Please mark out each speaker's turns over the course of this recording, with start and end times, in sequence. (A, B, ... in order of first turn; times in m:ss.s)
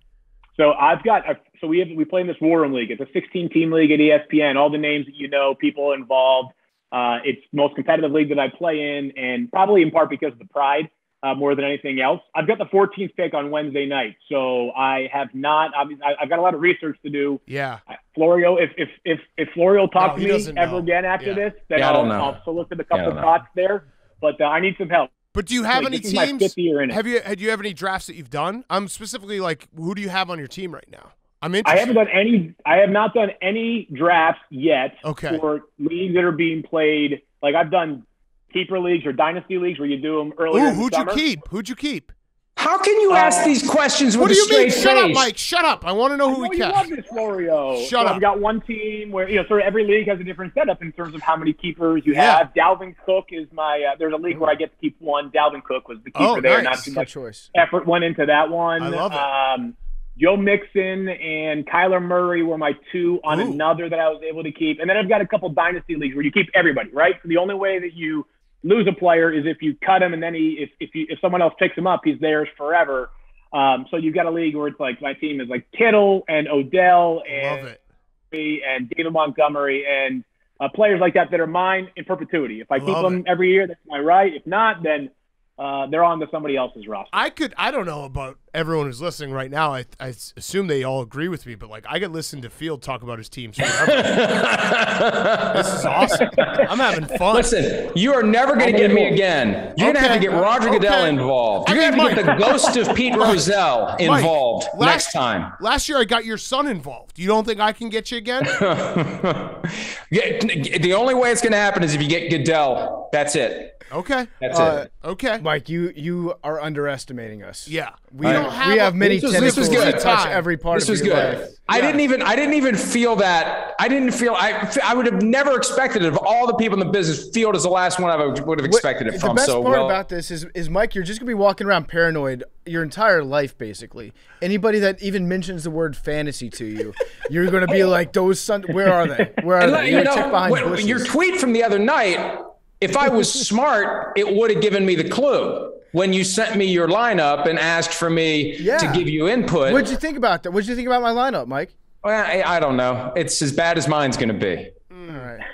0:00.6-0:25.1 A
0:17.5-0:17.8 B
0:20.0-0:21.5 B
0:21.8-0:22.4 C
0:22.9-0:23.3 C
0:25.3-0:32.0 B
0:25.7-0:27.0 A
0:31.6-0:41.2 A
0:35.0-0:35.4 B
0:40.5-0:42.1 B
0:42.6-0:45.3 C
0:43.1-0:43.5 A
0:44.2-0:46.9 B
0:46.3-1:17.7 A
0:47.8-0:48.2 B
0:52.1-0:52.5 B
0:56.2-0:56.9 B
0:56.5-0:57.5 D
0:58.8-0:59.3 B
1:03.3-1:03.6 B
1:17.3-1:17.8 B
1:18.3-1:27.2 A
1:22.8-1:23.2 B
1:27.1-1:34.5 B
1:33.6-1:36.7 C
1:35.5-1:37.6 B
1:37.3-1:45.6 C
1:38.8-1:39.1 A
1:39.8-1:43.4 B
1:44.0-1:48.6 B
1:48.4-1:53.8 C
1:53.9-1:54.4 B
1:54.4-1:54.8 C
1:54.5-1:54.9 D
1:55.0-1:55.4 B
1:55.4-2:02.0 D
1:57.7-2:00.5 B
1:58.2-2:00.1 C
2:00.7-2:10.0 C
2:08.6-2:21.1 D
2:19.5-2:29.9 C
2:28.6-2:29.0 D
2:29.6-2:31.7 D
2:32.0-2:34.8 C
2:34.9-2:35.3 B
2:35.1-2:35.4 D